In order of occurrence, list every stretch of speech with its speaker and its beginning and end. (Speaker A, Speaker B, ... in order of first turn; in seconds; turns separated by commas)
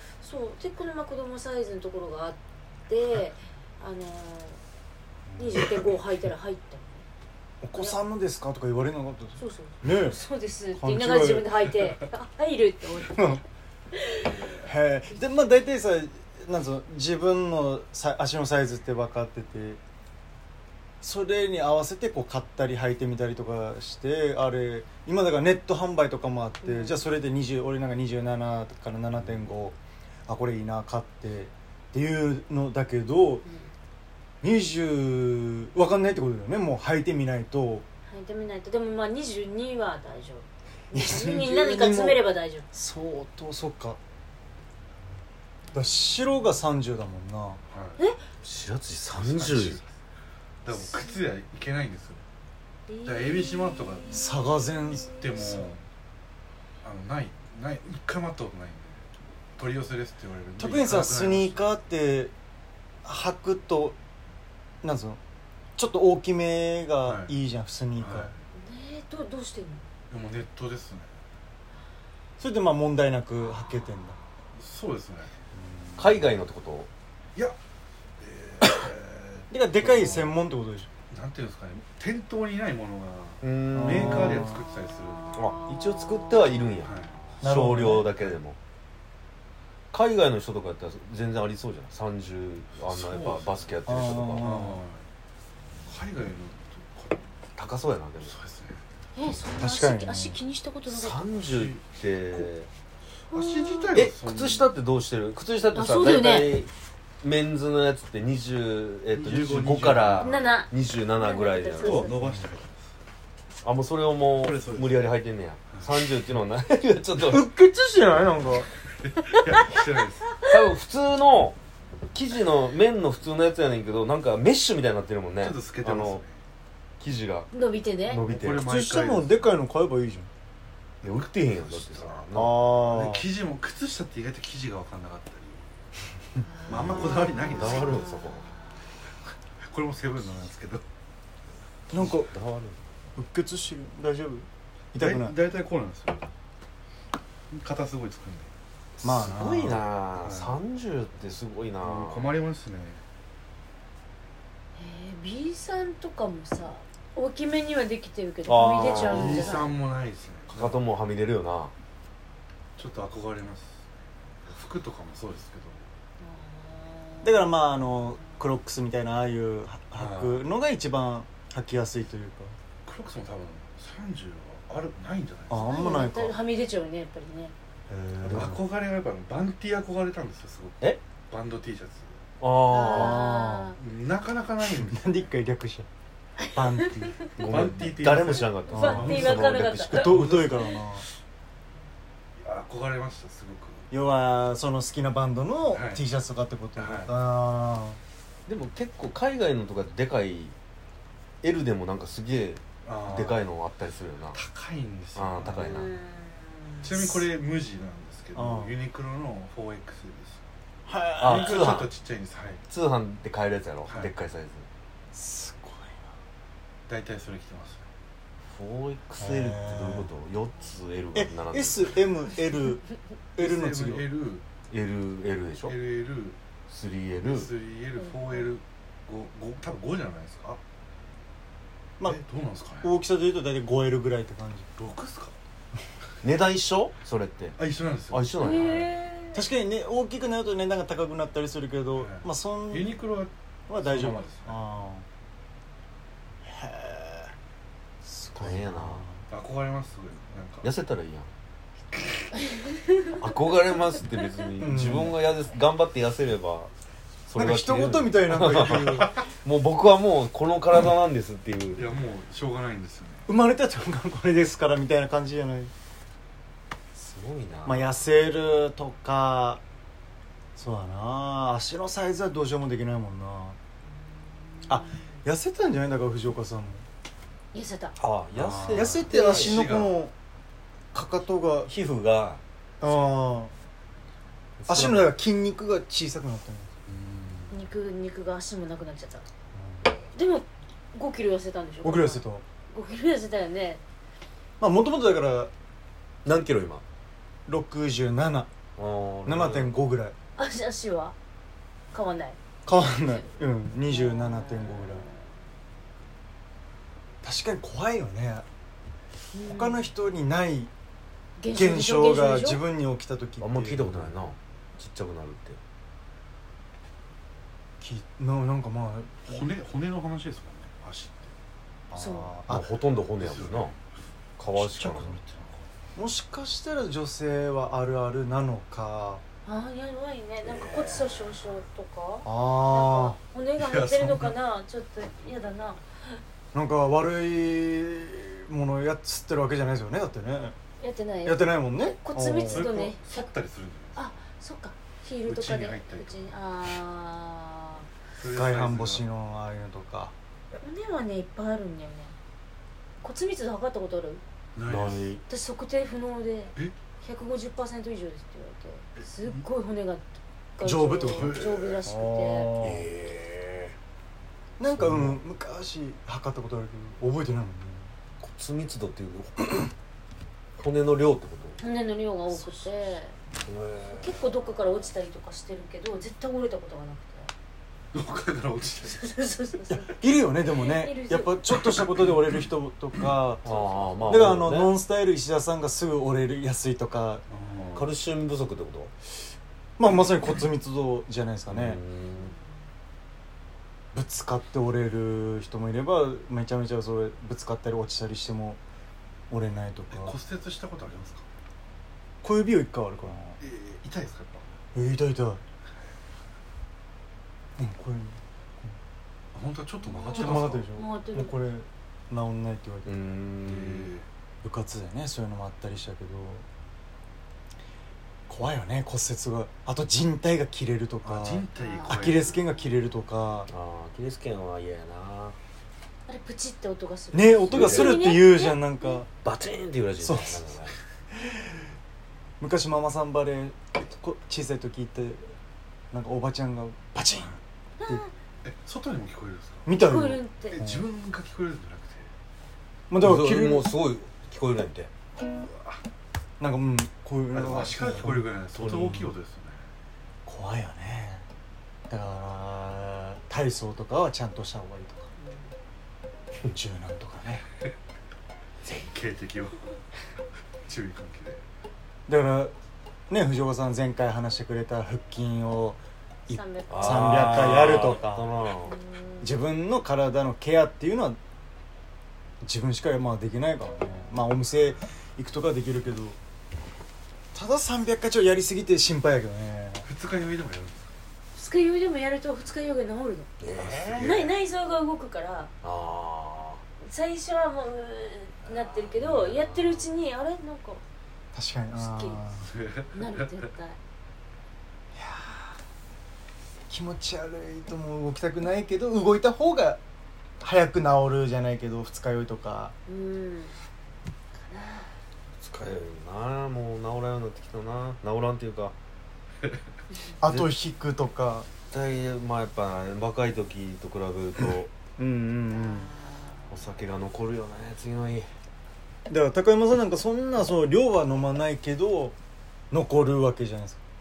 Speaker A: 0.2-4.6, Speaker B: 5.3-5.7, Speaker A: 5.4-7.0, Speaker B: 7.6-10.2, Speaker A: 9.4-14.6, Speaker B: 10.8-11.5, Speaker B: 13.1-13.4, Speaker B: 14.6-19.8, Speaker B: 21.0-33.5, Speaker A: 26.6-27.0, Speaker A: 33.5-33.7, Speaker B: 34.4-37.9, Speaker A: 38.1-42.7, Speaker B: 40.9-44.0, Speaker B: 45.7-47.6, Speaker C: 47.7-48.0, Speaker A: 48.0-48.2, Speaker D: 48.4-49.8, Speaker C: 49.0-49.9, Speaker C: 50.6-52.2, Speaker A: 50.7-51.2, Speaker A: 52.9-55.2, Speaker C: 53.0-54.2, Speaker B: 54.1-55.7, Speaker C: 55.1-55.9, Speaker C: 56.8-59.1, Speaker C: 59.6-61.7, Speaker B: 60.6-62.3, Speaker B: 63.0-64.0, Speaker B: 64.8-65.2, Speaker B: 65.8-68.3, Speaker C: 67.0-67.3, Speaker C: 68.0-68.4, Speaker A: 68.5-69.9, Speaker C: 70.1-71.1, Speaker B: 72.4-74.2, Speaker C: 74.6-75.4, Speaker D: 76.0-76.9, Speaker C: 78.2-80.3, Speaker B: 79.5-80.9, Speaker C: 81.1-85.4, Speaker D: 83.4-84.5, Speaker B: 83.7-84.6, Speaker A: 85.3-86.7, Speaker D: 85.3-88.6, Speaker C: 86.8-87.4, Speaker B: 87.4-88.1, Speaker D: 89.9-94.5, Speaker C: 92.8-93.7, Speaker B: 93.9-94.8, Speaker C: 94.4-95.1, Speaker C: 95.9-97.2, Speaker D: 97.6-98.4, Speaker C: 98.2-98.8, Speaker A: 99.2-101.2, Speaker B: 99.6-100.4, Speaker D: 100.9-102.7, Speaker C: 101.5-102.5, Speaker A: 103.3-104.0, Speaker C: 103.3-104.7, Speaker D: 103.9-106.7, Speaker A: 105.7-106.6, Speaker D: 107.2-112.1, Speaker C: 109.1-110.4, Speaker A: 110.2-112.2, Speaker C: 111.8-112.9, Speaker B: 112.2-112.5, Speaker D: 113.6-117.5, Speaker C: 114.4-115.1, Speaker C: 115.7-116.0, Speaker B: 117.3-118.7, Speaker C: 119.0-120.5, Speaker D: 120.4-121.6, Speaker D: 122.1-126.2, Speaker C: 125.4-126.4, Speaker D: 127.0-127.5, Speaker A: 127.5-128.2, Speaker D: 128.1-128.7, Speaker C: 128.3-129.5, Speaker B: 128.7-130.3, Speaker D: 131.0-132.7, Speaker C: 131.1-135.7, Speaker B: 132.3-133.3, Speaker A: 136.4-138.8, Speaker C: 136.7-138.1, Speaker D: 136.7-138.5, Speaker C: 139.6-140.8, Speaker B: 141.9-142.3, Speaker D: 141.9-142.8, Speaker B: 143.2-145.4, Speaker C: 145.0-146.3, Speaker C: 147.5-148.5, Speaker D: 149.0-152.3, Speaker B: 149.0-149.5, Speaker C: 149.2-150.6, Speaker C: 151.8-153.0, Speaker A: 154.8-159.7, Speaker D: 158.5-159.7, Speaker C: 158.9-160.8, Speaker D: 160.5-161.7, Speaker C: 162.8-163.8, Speaker C: 164.4-165.9, Speaker A: 166.2-168.1, Speaker B: 167.2-172.6, Speaker C: 169.9-170.5, Speaker C: 172.8-176.0, Speaker B: 175.5-176.4, Speaker A: 175.5-177.6, Speaker B: 177.9-178.6, Speaker D: 178.2-178.6, Speaker C: 178.3-182.2, Speaker D: 182.4-183.2, Speaker A: 182.7-183.8, Speaker B: 182.8-183.8, Speaker C: 183.8-185.2, Speaker B: 184.6-185.9, Speaker A: 186.4-187.1, Speaker B: 186.5-187.7, Speaker D: 187.4-190.3, Speaker C: 187.5-189.6, Speaker B: 188.7-191.1, Speaker A: 188.7-190.2, Speaker C: 190.2-190.7, Speaker C: 192.4-193.9, Speaker B: 193.9-198.0, Speaker C: 195.7-196.0, Speaker C: 196.8-197.1, Speaker D: 198.5-200.6, Speaker D: 201.4-204.4, Speaker C: 202.8-203.5, Speaker C: 204.3-205.7, Speaker D: 205.2-205.9, Speaker A: 205.6-206.9, Speaker C: 206.8-210.5, Speaker B: 208.3-208.8, Speaker B: 210.9-211.8, Speaker D: 211.2-211.9, Speaker C: 211.2-212.6, Speaker D: 212.7-214.7, Speaker C: 213.9-214.1, Speaker B: 215.1-216.1, Speaker C: 216.9-217.8, Speaker D: 218.5-221.9, Speaker B: 219.2-220.1, Speaker B: 221.1-222.8, Speaker C: 223.4-224.4, Speaker B: 223.4-224.1, Speaker D: 224.7-225.8, Speaker C: 225.7-226.4, Speaker D: 226.7-227.5, Speaker C: 227.2-230.6, Speaker A: 228.0-228.5, Speaker C: 232.0-232.9, Speaker B: 232.8-234.7, Speaker C: 234.8-235.4, Speaker D: 236.2-237.6, Speaker C: 237.6-238.9, Speaker D: 238.1-238.8, Speaker A: 238.4-239.5, Speaker B: 239.3-242.9, Speaker C: 242.0-244.6, Speaker B: 243.7-245.1, Speaker B: 246.5-247.3, Speaker B: 248.0-249.3, Speaker D: 248.3-249.1, Speaker C: 249.3-250.7, Speaker D: 250.6-251.3, Speaker D: 253.1-256.7, Speaker B: 254.6-255.2, Speaker D: 257.3-261.9, Speaker B: 257.4-259.2, Speaker C: 258.9-259.2, Speaker C: 261.8-263.3, Speaker B: 263.3-265.7, Speaker D: 266.9-267.9, Speaker B: 267.6-269.6, Speaker B: 270.6-273.6, Speaker A: 274.6-274.9, Speaker B: 274.7-276.9, Speaker A: 277.5-278.0, Speaker D: 278.0-279.6, Speaker C: 278.4-280.0, Speaker B: 278.7-280.1, Speaker B: 280.9-281.7, Speaker D: 281.7-282.4, Speaker B: 282.8-283.5, Speaker D: 284.6-285.2, Speaker B: 284.7-286.7, Speaker C: 286.9-287.6, Speaker A: 287.5-289.2, Speaker B: 289.5-289.9, Speaker A: 290.1-293.8, Speaker B: 291.8-292.4, Speaker B: 294.6-295.5, Speaker D: 296.2-296.8, Speaker B: 297.5-298.5, Speaker D: 298.8-299.8, Speaker B: 299.2-300.1, Speaker A: 300.4-301.1, Speaker A: 301.9-302.4, Speaker B: 302.7-305.1, Speaker A: 303.9-305.2, Speaker B: 307.2-308.5, Speaker A: 309.3-309.9, Speaker B: 309.5-310.7, Speaker A: 311.4-312.6, Speaker B: 311.5-314.1, Speaker D: 313.4-315.6, Speaker B: 317.8-319.4, Speaker C: 319.3-321.3, Speaker B: 321.9-322.7, Speaker A: 321.9-322.4, Speaker D: 322.5-323.7, Speaker C: 323.2-323.8, Speaker D: 324.4-325.2, Speaker C: 324.5-325.7, Speaker B: 326.0-329.2, Speaker A: 329.4-336.2, Speaker C: 330.7-331.1, Speaker B: 332.2-333.2, Speaker C: 333.6-334.4, Speaker B: 336.5-340.6, Speaker A: 340.8-343.3, Speaker B: 341.2-342.8, Speaker C: 342.4-344.1, Speaker A: 344.0-347.9, Speaker C: 345.2-346.3, Speaker C: 348.2-349.0, Speaker B: 348.3-350.1, Speaker A: 350.6-352.2, Speaker A: 353.0-354.2, Speaker C: 354.6-355.1, Speaker D: 354.6-355.2, Speaker A: 355.3-362.5, Speaker C: 359.0-359.4, Speaker B: 360.6-362.9, Speaker C: 361.1-361.8, Speaker D: 362.6-363.8, Speaker B: 364.6-367.9, Speaker D: 364.7-365.2, Speaker D: 368.2-369.7, Speaker D: 370.6-371.6, Speaker A: 371.6-373.2, Speaker D: 372.3-372.7, Speaker D: 373.4-374.2, Speaker A: 373.9-377.3, Speaker C: 377.9-379.0, Speaker A: 378.8-381.6, Speaker B: 379.7-383.5, Speaker D: 383.4-384.8, Speaker A: 383.5-383.9, Speaker B: 384.0-387.2, Speaker C: 387.3-387.9, Speaker D: 387.7-388.9, Speaker B: 389.8-391.8, Speaker D: 391.5-392.3, Speaker A: 392.1-392.4, Speaker B: 393.9-398.6, Speaker B: 399.3-400.2, Speaker C: 399.9-401.2, Speaker B: 402.2-403.4, Speaker C: 403.4-404.5, Speaker B: 404.8-405.4, Speaker B: 407.6-408.8, Speaker C: 409.3-410.7, Speaker B: 410.0-413.0, Speaker A: 410.1-411.4, Speaker D: 412.9-413.9, Speaker C: 413.5-414.1, Speaker B: 414.4-416.4, Speaker B: 418.3-423.5, Speaker C: 421.0-422.5, Speaker A: 421.6-422.1, Speaker D: 423.5-425.4, Speaker A: 426.1-429.0, Speaker B: 427.1-429.1, Speaker D: 427.5-428.0, Speaker D: 429.2-430.7, Speaker B: 430.0-430.4, Speaker B: 431.1-431.6, Speaker B: 432.4-435.3, Speaker B: 435.9-438.0, Speaker A: 437.8-438.1, Speaker C: 438.4-439.7, Speaker B: 439.6-440.9, Speaker A: 439.7-440.6, Speaker C: 440.5-442.1, Speaker B: 442.9-443.7, Speaker D: 443.0-444.9, Speaker C: 445.2-445.8, Speaker B: 446.4-448.3, Speaker C: 447.3-449.6, Speaker D: 448.5-449.1, Speaker B: 450.3-451.2, Speaker B: 451.9-455.1, Speaker A: 455.2-455.5, Speaker B: 456.4-457.4, Speaker C: 458.7-459.8, Speaker C: 460.6-461.4, Speaker B: 462.1-462.6, Speaker B: 463.1-468.3, Speaker A: 466.3-467.8, Speaker D: 466.7-468.8, Speaker A: 468.7-469.4, Speaker B: 469.2-471.2, Speaker B: 472.4-476.2, Speaker B: 477.3-479.9, Speaker C: 479.9-480.9, Speaker A: 481.4-483.3, Speaker D: 483.4-484.1, Speaker C: 483.5-484.3, Speaker A: 484.0-485.5, Speaker D: 485.6-486.6, Speaker A: 486.8-490.8, Speaker D: 488.5-489.9, Speaker B: 491.3-492.5, Speaker A: 491.7-492.2, Speaker C: 492.5-493.3, Speaker A: 492.9-493.8, Speaker B: 494.9-495.6, Speaker B: 496.7-499.8, Speaker B: 500.4-502.7, Speaker A: 502.9-503.6, Speaker A: 504.3-504.9, Speaker D: 505.4-508.7, Speaker B: 510.2-511.5, Speaker D: 511.7-514.7, Speaker B: 515.0-515.9, Speaker D: 516.5-518.3, Speaker B: 519.1-522.2, Speaker B: 522.7-523.8